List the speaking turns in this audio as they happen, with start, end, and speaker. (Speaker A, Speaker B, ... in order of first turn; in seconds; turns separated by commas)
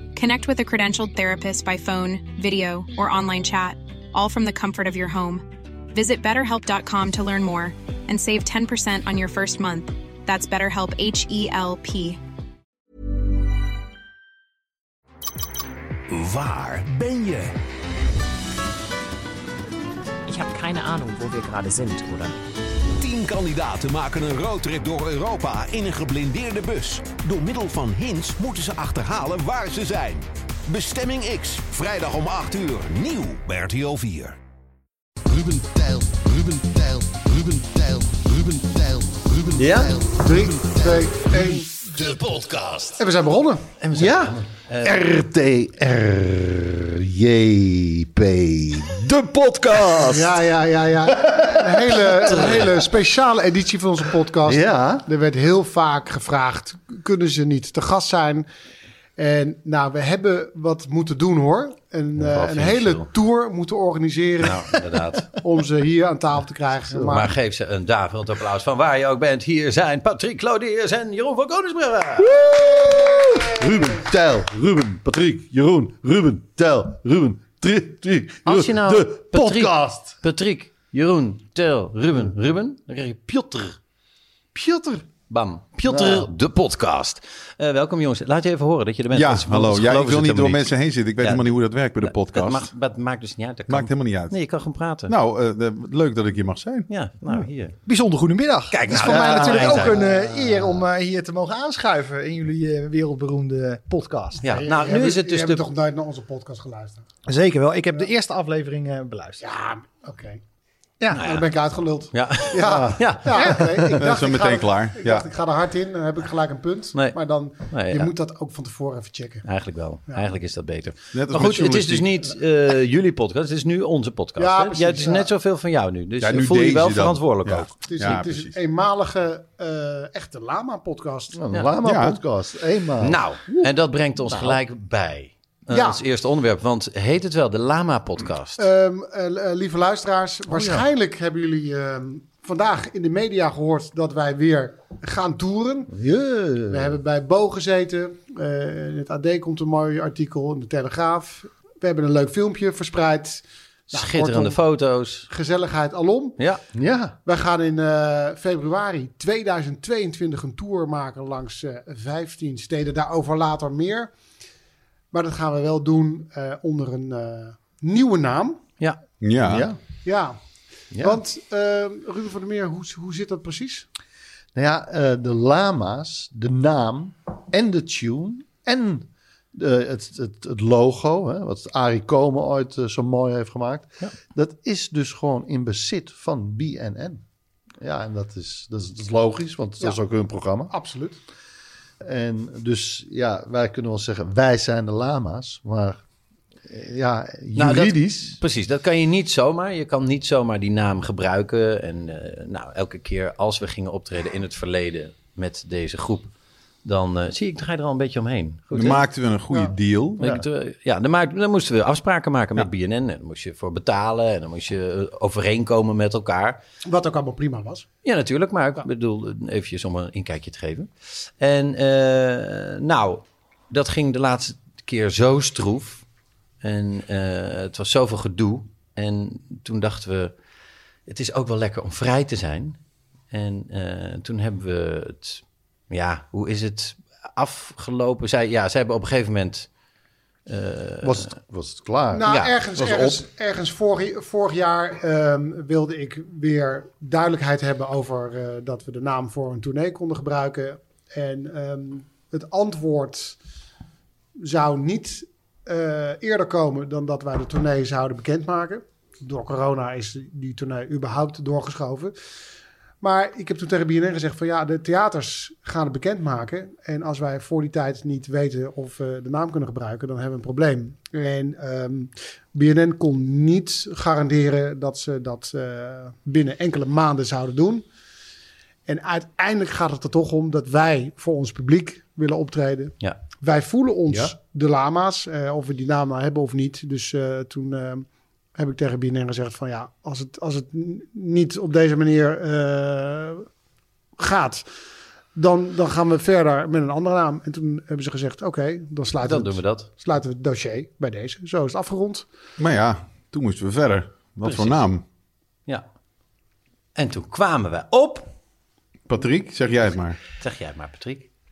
Speaker A: 0.1-12.2, Speaker B: 16.1-17.5, Speaker C: 20.2-22.4, Speaker B: 23.0-34.4, Speaker B: 35.3-35.6, Speaker D: 35.5-41.1, Speaker E: 39.5-40.0, Speaker F: 40.2-41.8, Speaker B: 41.3-43.0, Speaker F: 43.0-43.7, Speaker E: 43.8-45.0, Speaker D: 43.9-50.4, Speaker B: 49.5-50.0, Speaker F: 50.0-58.5, Speaker D: 51.1-52.6, Speaker E: 52.3-52.7, Speaker D: 54.4-55.0, Speaker F: 59.2-64.8, Speaker E: 62.2-63.1, Speaker E: 64.4-65.3, Speaker F: 65.4-67.3, Speaker E: 67.0-72.4, Speaker D: 72.2-80.2, Speaker E: 78.4-83.8, Speaker D: 84.5-85.0, Speaker E: 85.3-91.5, Speaker D: 85.8-86.3, Speaker G: 89.1-92.7, Speaker E: 92.0-95.1, Speaker G: 93.7-94.3, Speaker G: 95.1-96.9, Speaker E: 96.9-97.8, Speaker H: 97.3-104.5, Speaker E: 98.7-100.0, Speaker D: 99.0-100.6, Speaker F: 99.1-100.0, Speaker E: 104.4-105.7, Speaker F: 104.4-107.0, Speaker H: 107.3-109.4, Speaker F: 109.4-110.4, Speaker H: 111.0-111.2, Speaker F: 111.1-119.4, Speaker E: 111.1-111.5, Speaker E: 112.1-113.9, Speaker D: 112.6-113.2, Speaker G: 114.0-115.3, Speaker E: 117.7-118.1, Speaker E: 119.4-127.7, Speaker G: 121.1-122.1, Speaker F: 124.4-125.3, Speaker G: 126.2-128.5, Speaker F: 127.9-131.4, Speaker D: 131.3-133.2, Speaker G: 131.8-132.2, Speaker E: 133.0-138.7, Speaker D: 134.3-134.6, Speaker F: 135.7-136.0, Speaker F: 138.6-145.9, Speaker D: 140.5-140.8, Speaker D: 145.9-147.0, Speaker F: 146.7-154.6, Speaker E: 153.9-155.3, Speaker F: 155.3-156.4, Speaker D: 156.7-157.2, Speaker F: 157.2-164.1, Speaker F: 165.1-168.6, Speaker G: 169.2-169.7, Speaker D: 169.4-169.8, Speaker F: 170.0-170.4, Speaker E: 170.9-171.2, Speaker F: 170.9-173.8, Speaker D: 174.5-187.2, Speaker D: 187.8-190.7, Speaker F: 190.7-191.2, Speaker D: 192.0-196.0, Speaker D: 196.7-198.4, Speaker E: 197.5-206.3, Speaker E: 206.8-209.0, Speaker G: 208.7-210.3, Speaker E: 210.2-216.6, Speaker F: 216.8-217.9, Speaker E: 218.0-226.0, Speaker E: 226.6-230.3, Speaker E: 231.1-232.8, Speaker E: 233.3-239.7, Speaker E: 240.5-241.3, Speaker D: 241.0-242.2, Speaker F: 242.1-253.4, Speaker E: 242.3-242.5, Speaker F: 254.4-262.1, Speaker F: 263.0-277.9, Speaker F: 278.9-293.4, Speaker F: 294.2-294.7, Speaker F: 295.3-302.2, Speaker E: 299.2-299.9, Speaker G: 302.6-305.0, Speaker E: 304.4-304.8, Speaker E: 306.9-308.3, Speaker G: 309.1-310.2, Speaker E: 310.4-311.3